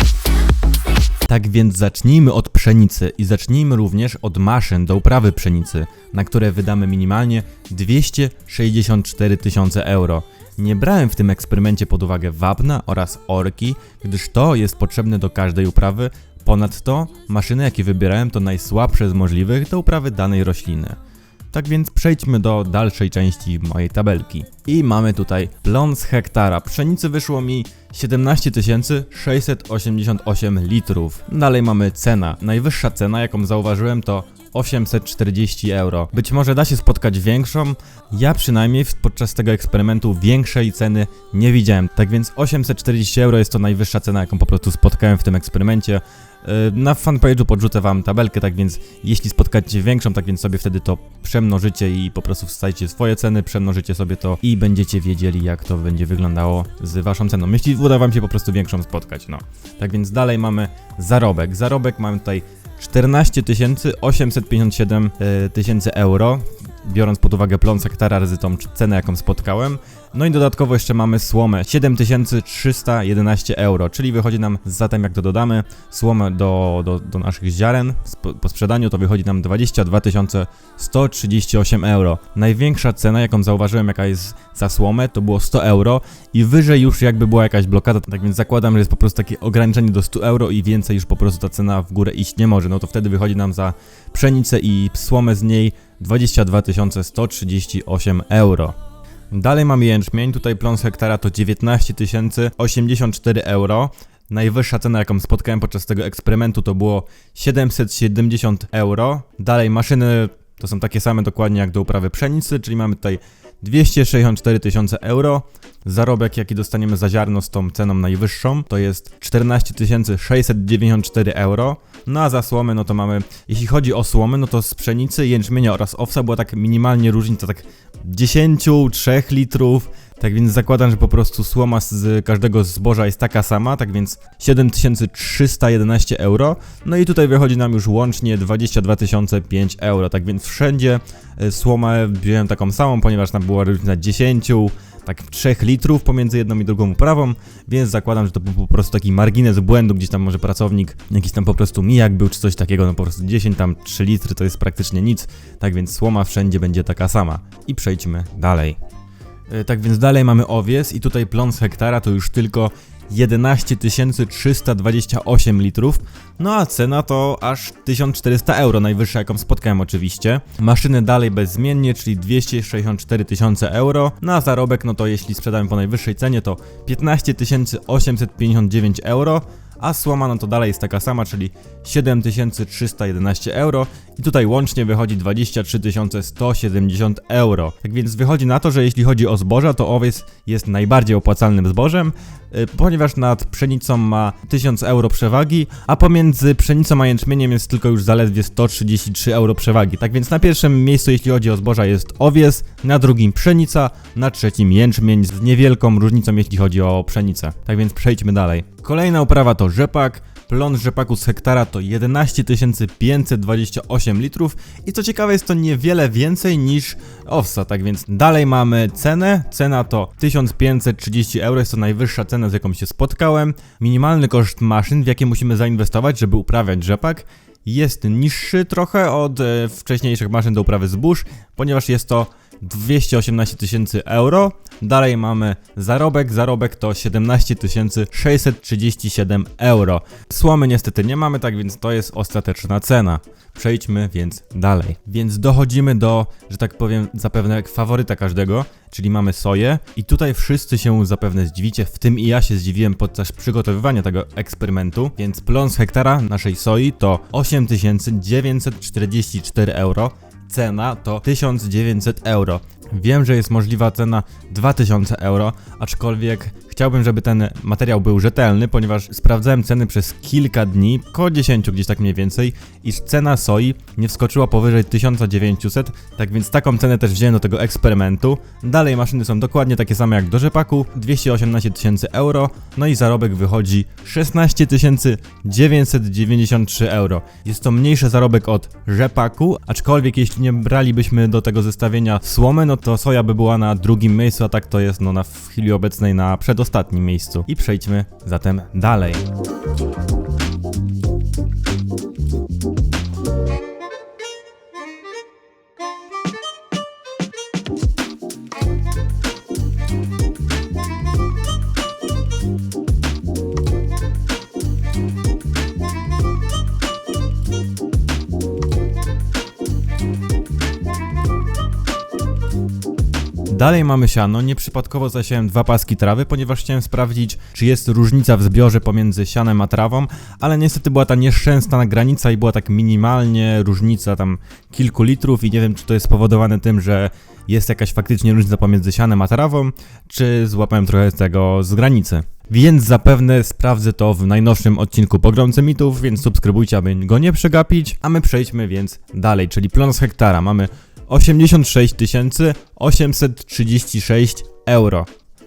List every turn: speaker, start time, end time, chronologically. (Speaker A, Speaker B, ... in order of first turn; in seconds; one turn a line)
Speaker A: 1.3-21.0
Speaker A: 21.5-98.8
Speaker A: 99.3-158.8
Speaker A: 159.5-299.3
Speaker A: 323.5-355.1